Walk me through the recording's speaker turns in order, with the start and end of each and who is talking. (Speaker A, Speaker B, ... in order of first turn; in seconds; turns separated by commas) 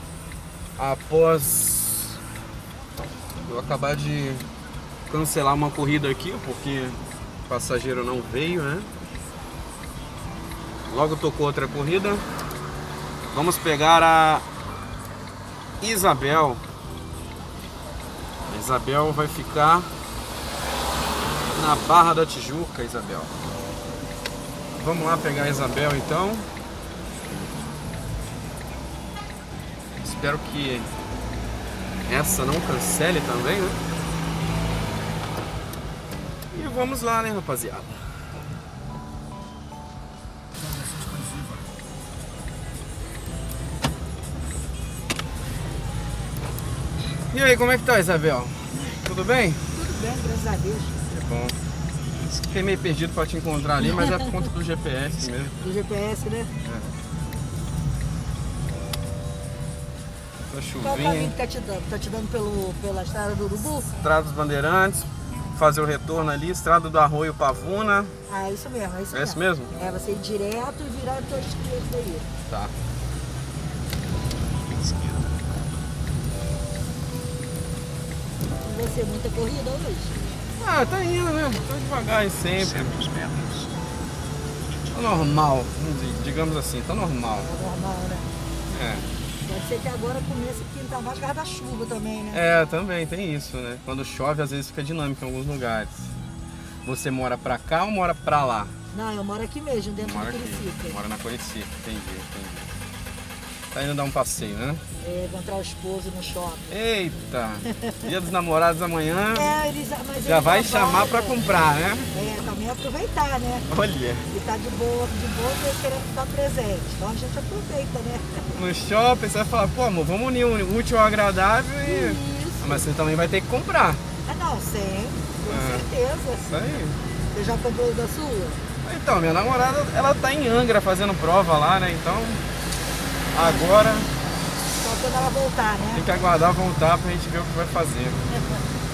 Speaker A: 0.8-2.2, Speaker A: 3.5-4.5, Speaker A: 5.1-8.9, Speaker A: 10.9-12.2, Speaker A: 13.3-14.4, Speaker A: 15.8-16.6, Speaker A: 18.5-19.9, Speaker A: 21.5-23.4, Speaker A: 24.7-26.5, Speaker A: 30.0-30.9, Speaker A: 32.1-33.8, Speaker A: 36.5-38.0, Speaker A: 47.3-49.6, Speaker B: 49.7-51.0, Speaker A: 51.1-51.6, Speaker A: 52.4-55.6, Speaker B: 53.9-54.2, Speaker B: 55.6-56.5, Speaker A: 56.6-56.9, Speaker A: 60.5-61.4, Speaker B: 60.8-63.9, Speaker A: 64.0-68.1, Speaker B: 68.3-72.3, Speaker A: 69.1-69.7, Speaker A: 72.5-72.7, Speaker B: 78.6-80.2, Speaker A: 80.6-83.2, Speaker A: 84.9-87.5, Speaker B: 87.4-88.3, Speaker A: 88.7-89.1, Speaker B: 89.5-92.4, Speaker A: 92.3-96.1, Speaker A: 96.8-98.7, Speaker B: 98.9-101.0, Speaker A: 100.0-102.7, Speaker A: 103.7-104.8, Speaker B: 105.0-106.7, Speaker A: 106.7-109.5, Speaker B: 107.8-108.1, Speaker B: 109.3-111.5, Speaker A: 110.2-112.1, Speaker B: 112.1-113.7, Speaker A: 113.7-114.3, Speaker B: 114.3-118.5, Speaker A: 118.5-124.0, Speaker B: 121.8-122.8, Speaker B: 124.3-126.7, Speaker A: 125.5-125.9, Speaker A: 126.5-127.0, Speaker B: 127.3-128.6, Speaker A: 128.8-132.4, Speaker A: 133.3-134.1, Speaker B: 133.3-133.8, Speaker B: 134.8-136.0, Speaker A: 135.9-138.2